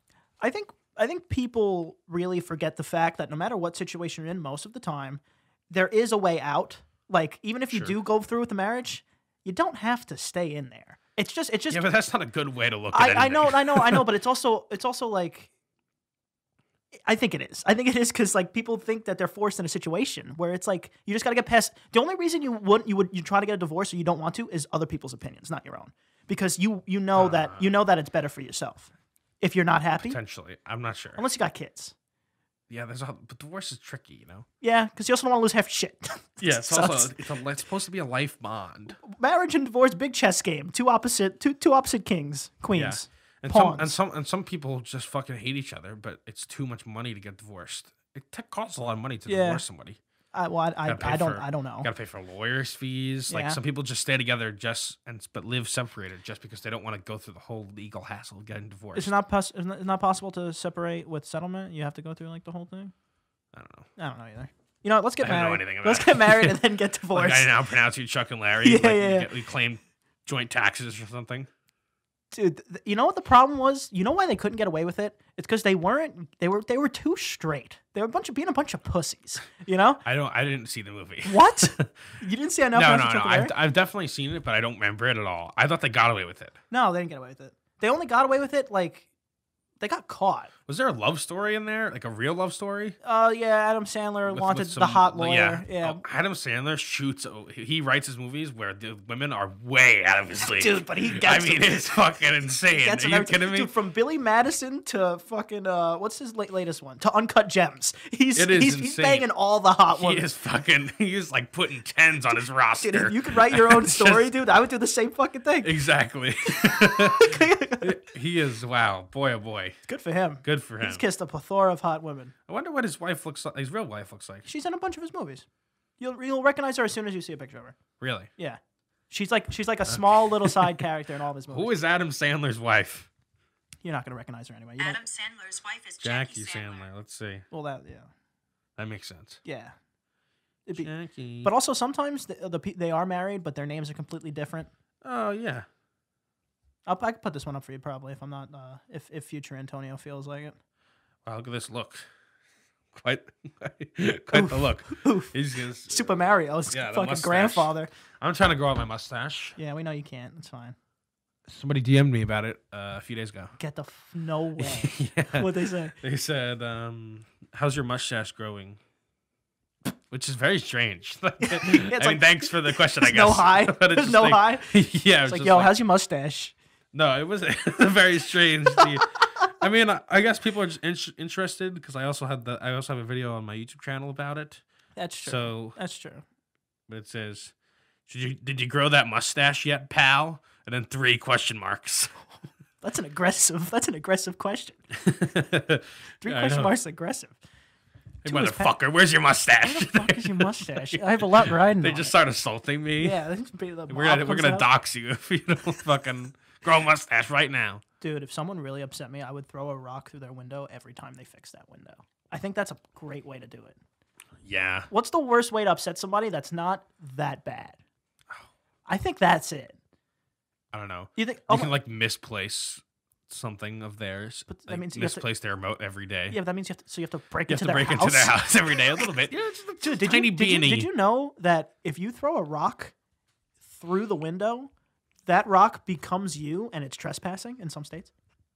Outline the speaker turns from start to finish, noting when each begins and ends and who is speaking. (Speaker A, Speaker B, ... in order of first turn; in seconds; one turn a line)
Speaker A: 0.4-11.8
Speaker B: 11.7-14.1
Speaker A: 12.9-15.5
Speaker A: 17.0-28.9
Speaker B: 27.1-27.7
Speaker A: 29.4-30.2
Speaker B: 30.0-31.2
Speaker A: 31.1-31.9
Speaker B: 32.7-34.5
Speaker A: 34.6-37.3
Speaker B: 36.4-39.0
Speaker A: 39.0-44.0
Speaker B: 42.7-50.0
Speaker A: 49.3-49.6
Speaker A: 50.3-51.9
Speaker B: 50.8-59.1
Speaker A: 53.3-53.6
Speaker A: 58.9-62.9
Speaker B: 63.5-63.9
Speaker A: 64.0-67.5
Speaker B: 65.2-71.5
Speaker A: 68.6-69.3
Speaker A: 72.3-80.0
Speaker B: 80.0-82.0
Speaker A: 81.2-83.5
Speaker B: 82.7-86.6
Speaker A: 86.7-89.1
Speaker A: 89.8-90.5
Speaker B: 90.7-93.0
Speaker A: 93.0-96.0
Speaker B: 94.3-103.7
Speaker A: 100.4-101.9
Speaker A: 102.7-110.2
Speaker B: 108.3-109.3
Speaker B: 109.9-114.3
Speaker A: 112.8-115.8
Speaker B: 115.6-119.8
Speaker A: 116.6-118.0
Speaker A: 119.9-122.3
Speaker B: 120.4-121.0
Speaker B: 122.5-124.5
Speaker A: 124.5-125.4
Speaker A: 126.0-127.8
Speaker B: 128.0-128.3
Speaker A: 128.4-131.7
Speaker B: 129.9-130.8
Speaker B: 131.5-133.1
Speaker A: 133.8-135.1
Speaker C: 134.8-136.9
Speaker B: 136.0-137.4
Speaker A: 137.5-138.1
Speaker B: 138.8-139.4
Speaker A: 139.4-139.7
Speaker B: 140.8-141.5
Speaker A: 141.4-144.7
Speaker B: 145.0-145.7
Speaker A: 146.8-150.6
Speaker B: 151.2-152.1
Speaker B: 152.9-159.6
Speaker A: 154.3-155.3
Speaker A: 155.9-157.9
Speaker A: 159.6-160.8
Speaker B: 161.5-163.5
Speaker A: 163.6-165.9
Speaker B: 164.6-168.8
Speaker B: 170.1-175.7
Speaker A: 171.4-174.7
Speaker A: 175.2-176.5
Speaker B: 176.9-184.6
Speaker A: 184.9-186.2
Speaker B: 185.2-185.8
Speaker B: 186.9-187.5
Speaker B: 188.1-192.2
Speaker A: 192.8-194.8
Speaker B: 194.9-196.8
Speaker A: 196.2-197.3
Speaker A: 198.2-198.7
Speaker B: 198.2-203.2
Speaker A: 199.6-202.1
Speaker A: 203.0-204.7
Speaker B: 203.9-207.8
Speaker A: 208.0-213.8
Speaker B: 214.4-214.9
Speaker A: 214.9-217.8
Speaker A: 218.9-219.8
Speaker B: 220.7-226.4
Speaker A: 221.2-221.7
Speaker A: 224.5-225.2
Speaker A: 226.3-229.0
Speaker B: 227.5-230.9
Speaker A: 229.8-232.9
Speaker A: 233.7-234.7
Speaker A: 235.2-238.1